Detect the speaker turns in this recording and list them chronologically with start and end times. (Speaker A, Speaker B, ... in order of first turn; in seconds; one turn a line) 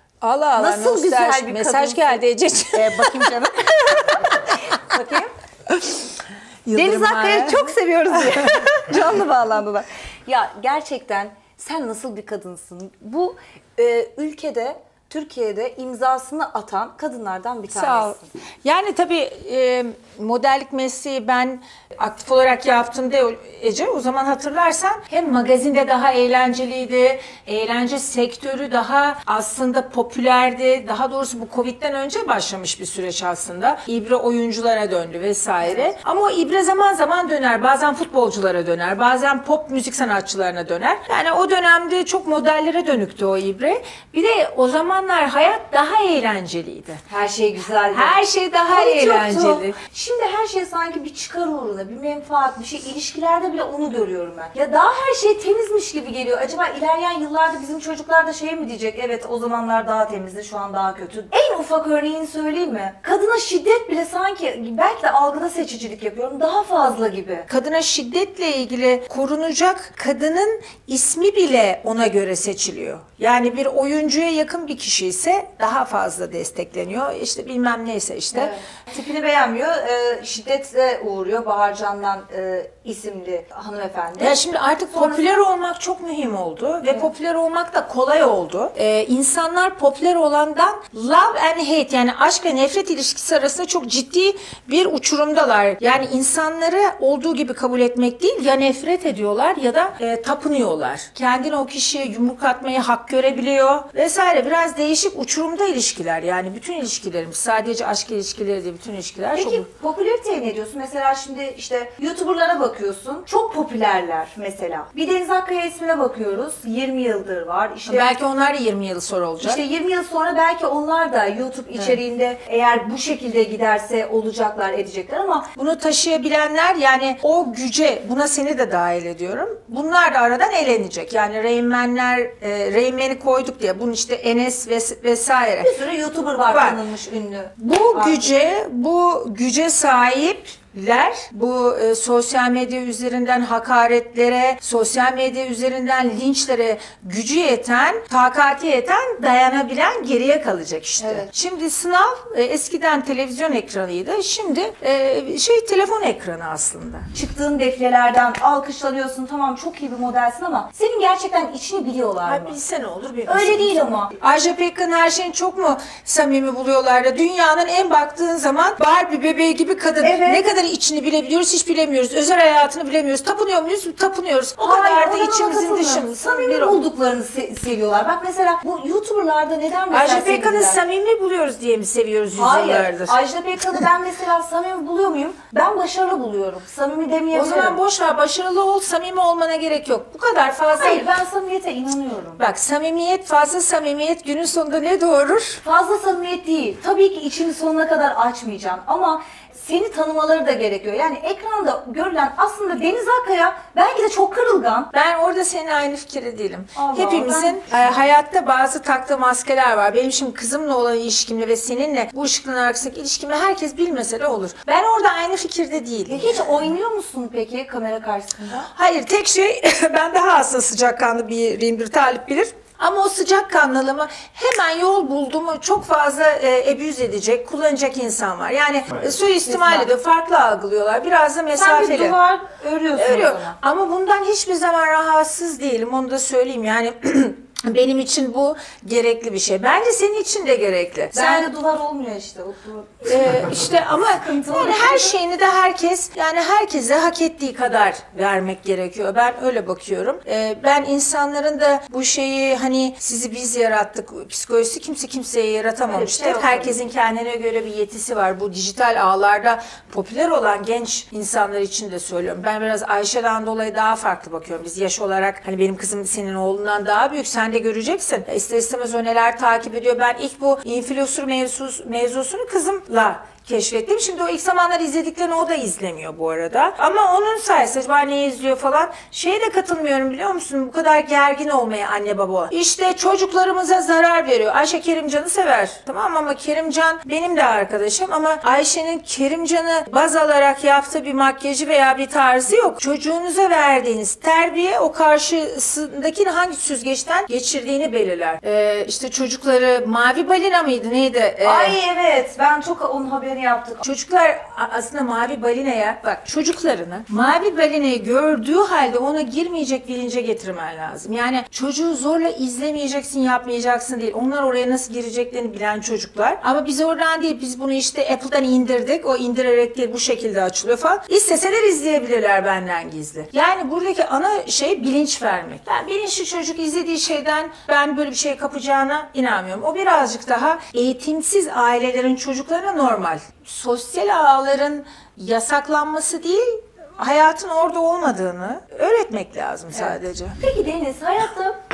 Speaker A: 0.2-4.5
Speaker B: 0.6-2.2
Speaker B: 2.7-5.3
Speaker A: 6.7-7.8
Speaker B: 6.7-18.3
Speaker A: 8.3-8.7
Speaker A: 17.7-47.0
Speaker B: 35.6-35.9
Speaker B: 47.1-67.5
Speaker A: 47.9-49.8
Speaker A: 67.5-78.5
Speaker B: 78.3-85.4
Speaker A: 84.2-109.7
Speaker B: 86.8-87.1
Speaker B: 109.3-118.2
Speaker A: 117.9-119.6
Speaker B: 119.4-125.5
Speaker A: 125.5-135.7
Speaker B: 135.6-138.3
Speaker A: 136.5-136.8
Speaker A: 137.6-157.1
Speaker B: 151.0-151.2
Speaker B: 157.1-162.6
Speaker A: 162.2-176.8
Speaker B: 163.3-164.1
Speaker B: 170.0-170.5
Speaker B: 174.6-180.8
Speaker A: 179.9-183.2
Speaker B: 182.3-187.8
Speaker A: 187.3-191.1
Speaker B: 190.7-192.4
Speaker A: 192.4-195.6
Speaker B: 195.6-204.9
Speaker A: 204.9-216.4
Speaker B: 206.8-207.8
Speaker B: 216.1-218.7
Speaker A: 218.6-232.2
Speaker B: 229.4-229.9
Speaker B: 231.6-233.6
Speaker A: 232.9-241.5
Speaker B: 241.1-243.5
Speaker A: 243.1-301.8
Speaker B: 244.2-245.2
Speaker B: 255.9-256.8
Speaker B: 301.4-303.8
Speaker A: 303.8-340.4
Speaker B: 339.7-341.6